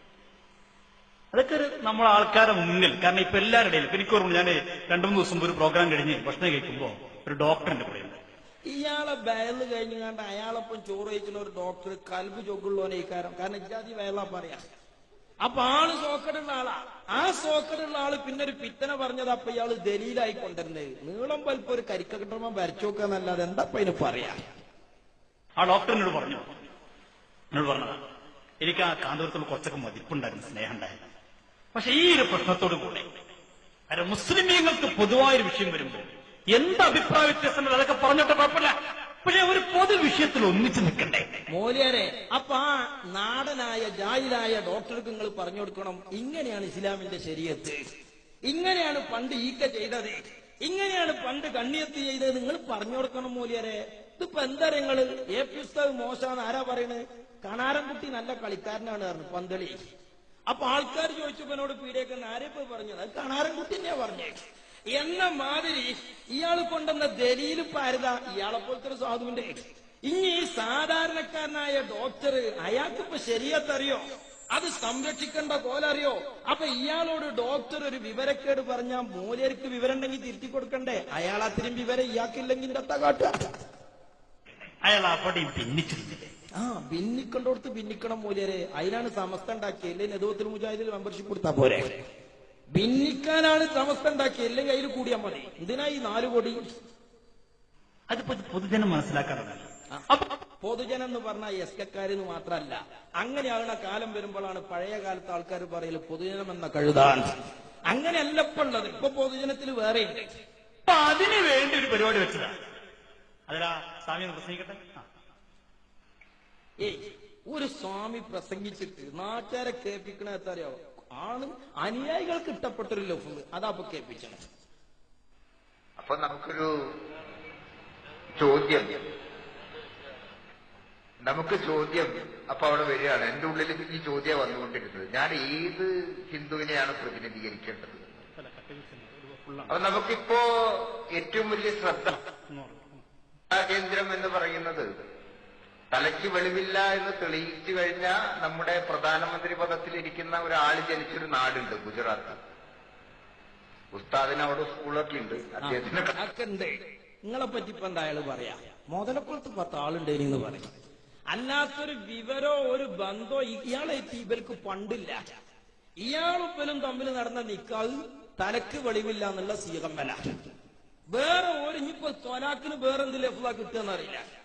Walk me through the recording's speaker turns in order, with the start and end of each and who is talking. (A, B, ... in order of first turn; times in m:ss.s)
0:01.3-0:08.2 A
0:08.7-0:14.6 B
0:15.4-0:24.4 B
0:25.6-0:26.5 A
0:27.5-0:28.0 A
0:28.6-0:31.1 A
0:31.7-0:33.1 A
0:33.9-0:41.3 A
0:41.5-0:47.8 B
0:48.5-0:59.8 B
1:00.5-1:04.4 B
1:04.9-1:23.5 B
1:24.8-1:26.3 A
1:26.6-1:32.0 B
1:32.7-1:36.6 B
1:38.1-1:40.3 A
1:40.6-1:47.3 B
1:47.9-1:50.3 B
1:50.9-1:52.6 A
1:53.5-1:55.0 A
1:56.8-2:04.4 B
2:06.0-2:06.7 C
2:08.4-2:09.0 C
2:11.2-2:18.1 C
2:18.4-2:19.8 A
2:19.7-2:22.2 C
2:22.1-2:23.0 A
2:23.5-2:24.9 C
2:25.9-2:32.4 C
2:33.9-2:36.2 C
2:35.6-2:40.7 B
2:41.3-2:45.2 B
2:46.0-2:50.2 B
2:51.1-2:54.2 B